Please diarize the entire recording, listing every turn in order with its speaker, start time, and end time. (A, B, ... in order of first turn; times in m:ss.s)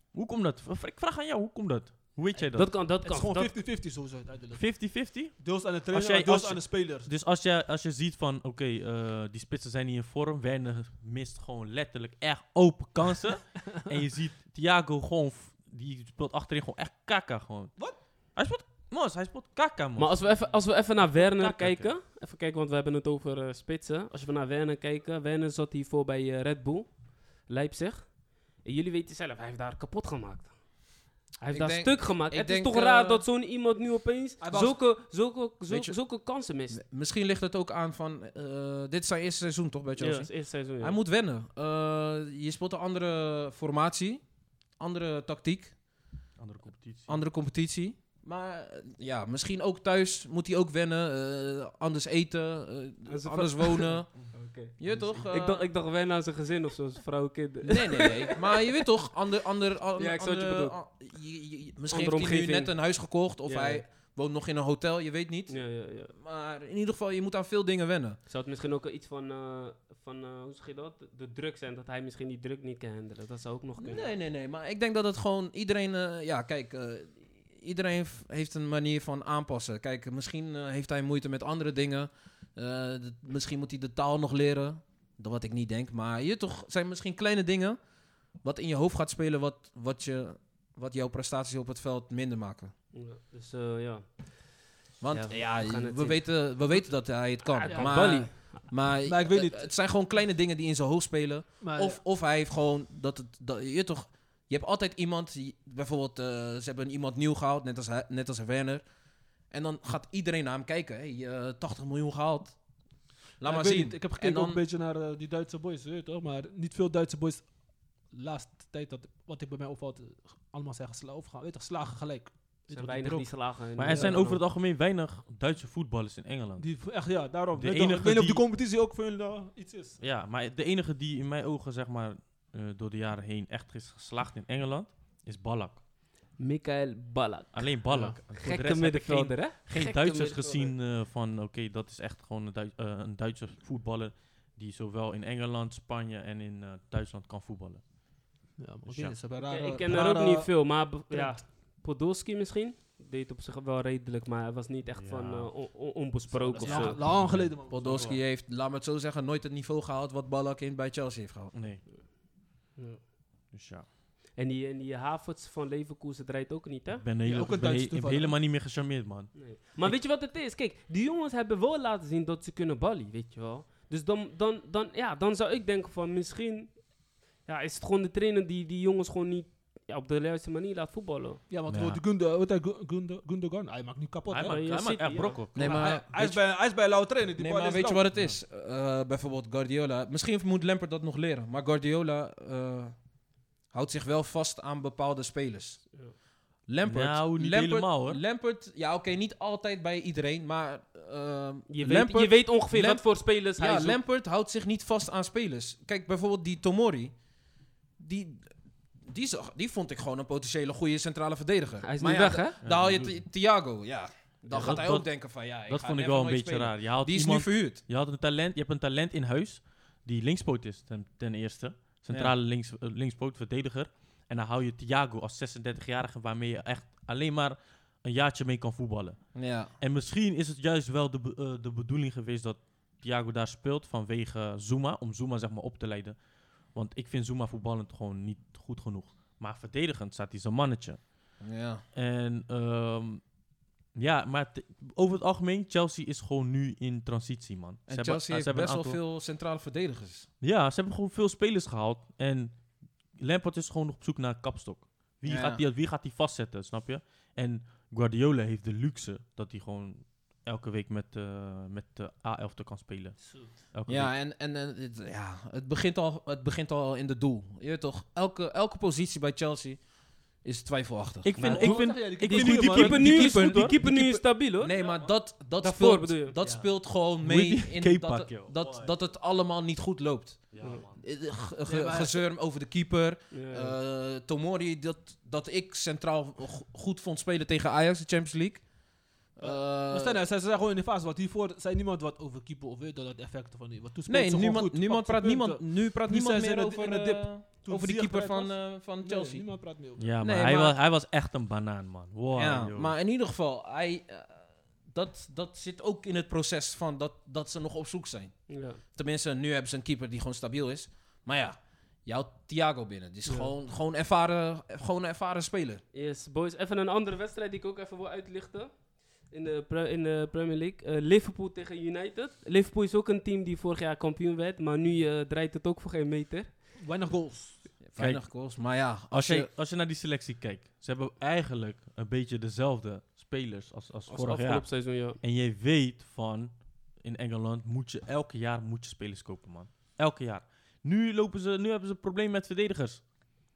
0:00.1-0:02.8 A
0:02.5-0:03.5 B
0:03.0-0:07.1 C
0:04.5-0:21.9 A
0:20.0-0:36.8 B
0:31.5-0:33.2 D
0:34.4-0:34.8 C
0:35.7-0:36.0 D
0:36.7-0:44.2 D
0:40.0-0:41.0 B
0:44.8-0:45.7 D
0:46.4-0:47.2 A
0:47.1-0:55.6 D
0:53.1-0:54.7 B
0:54.9-0:55.2 A
0:55.2-0:58.7 B
0:57.6-1:08.2 D
1:00.0-1:00.8 B
1:01.9-1:02.8 B
1:03.4-1:03.8 B
1:05.5-1:06.1 B
1:08.3-1:14.1 B
1:13.8-1:27.8 D
1:28.4-1:32.7 D
1:32.9-1:36.2 B
1:35.0-1:48.8 D
1:37.5-1:38.6 B
1:37.6-1:38.5 C
1:39.0-1:39.7 C
1:41.6-1:42.0 C
1:49.5-1:52.6 D
1:53.4-1:54.6 D
1:53.4-2:04.3 C
2:02.7-2:04.4 B
2:03.8-2:06.7 A
2:06.6-2:10.0 C
2:07.5-2:08.4 A
2:10.0-2:15.8 A
2:16.4-2:20.7 B
2:17.5-2:27.8 A
2:28.6-2:31.4 C
2:28.8-2:29.2 A
2:29.4-2:37.0 B
2:35.0-2:35.5 A
2:36.5-2:37.0 D
2:36.6-2:38.2 C
2:36.6-2:38.2 A
2:37.7-2:41.5 D
2:41.5-2:41.8 A
2:42.7-2:43.0 B
2:43.5-2:43.9 A
2:44.3-2:47.0 B
2:47.0-2:50.0 A
2:47.2-2:48.4 C
2:49.3-3:01.4 B
3:01.5-3:04.7 C
3:01.7-3:02.0 A
3:04.3-3:06.3 A
3:04.4-3:05.4 B
3:05.5-3:06.4 D
3:05.6-3:08.0 C
3:07.4-3:13.0 D
3:13.7-3:15.9 D
3:16.7-3:27.1 D
3:16.8-3:18.2 A
3:21.7-3:24.0 B
3:28.0-3:37.8 D
3:31.8-3:32.5 B
3:32.6-3:33.1 A
3:34.4-3:34.8 B
3:34.5-3:49.2 A
3:49.3-3:49.7 D
3:49.8-3:56.2 A
3:56.7-4:01.1 A
4:01.4-4:01.8 D
4:01.9-4:03.2 A
4:03.9-4:09.0 A
4:07.9-4:10.3 D
4:10.4-4:12.6 A
4:13.1-4:24.1 A
4:15.2-4:15.6 D
4:23.2-4:23.5 C
4:23.9-4:29.8 D
4:30.4-4:31.8 D
4:31.2-4:33.8 A
4:31.4-4:33.1 C
4:31.5-4:34.8 B
4:33.0-4:48.6 D
4:35.6-4:36.4 B
4:37.2-4:38.9 A
4:40.5-4:41.0 A
4:40.6-4:40.8 B
4:41.6-4:42.2 C
4:43.3-4:43.7 B
4:49.3-4:50.2 D
4:49.4-5:00.1 C
4:54.1-4:59.5 D
5:00.0-5:02.9 A
5:00.2-5:00.8 D
5:02.3-5:15.8 D
5:08.5-5:08.8 B
5:15.9-5:26.5 B
5:26.8-5:27.7 C
5:27.8-5:29.5 D
5:28.0-5:28.5 A
5:29.1-5:43.0 A
5:34.1-5:35.2 B